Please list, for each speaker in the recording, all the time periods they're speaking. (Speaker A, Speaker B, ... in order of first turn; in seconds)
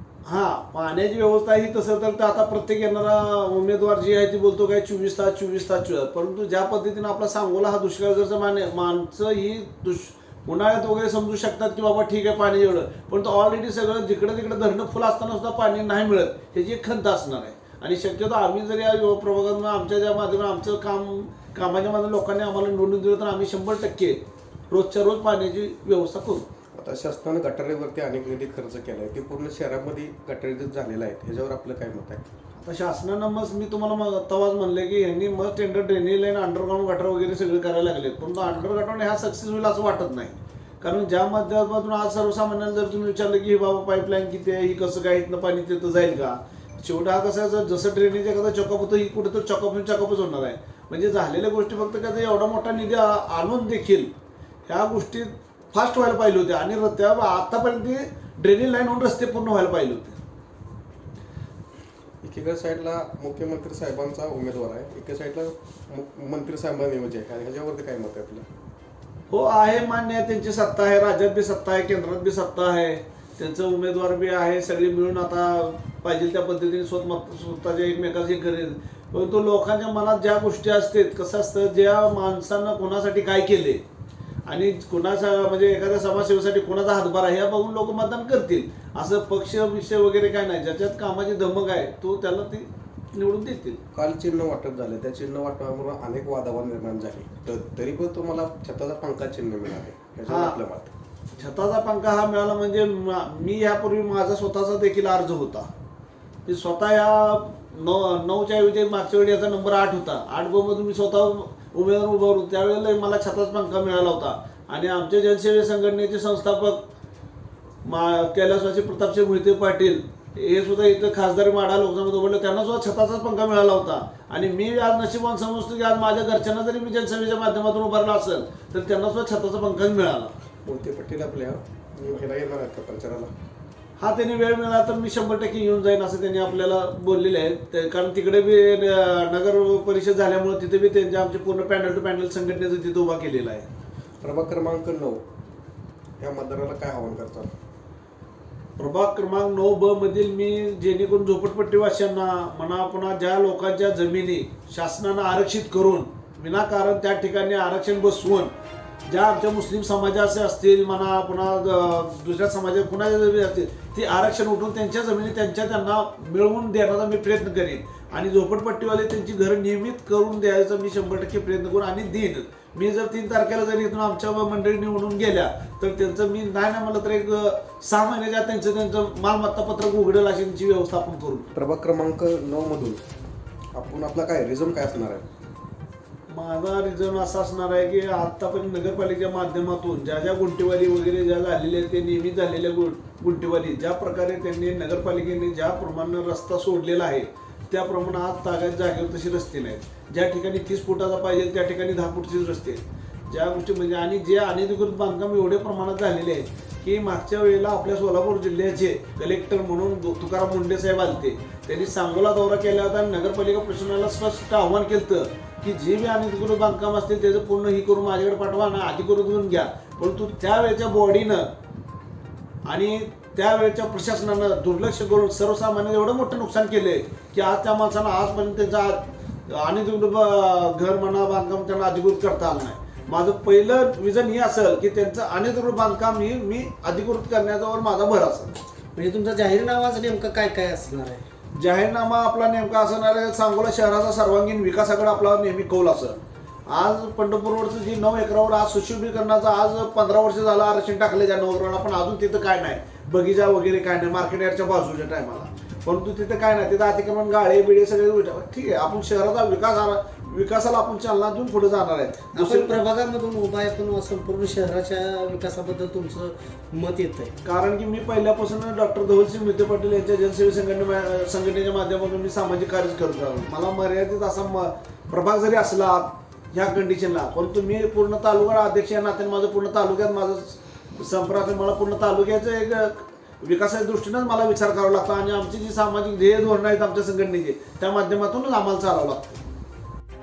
Speaker A: 0.2-26.4, 32.5-54.1, 54.7-60.2, 69.3-83.8, 84.5-93.8, 100.2-100.6, 101.4-105.7, 106.5-116.8, 117.8-130.3, 134.0-143.7, 148.8-158.5, 159.1-181.5, 186.3-221.5, 222.7-238.6, 241.5-262.8, 267.4-289.4
Speaker B: 26.7-32.3, 62.2-68.5, 93.9-100.9, 130.6-133.3, 144.2-145.2, 146.2-147.5, 181.5-183.0, 183.7-185.2
Speaker C: 238.9-241.2, 262.3-267.3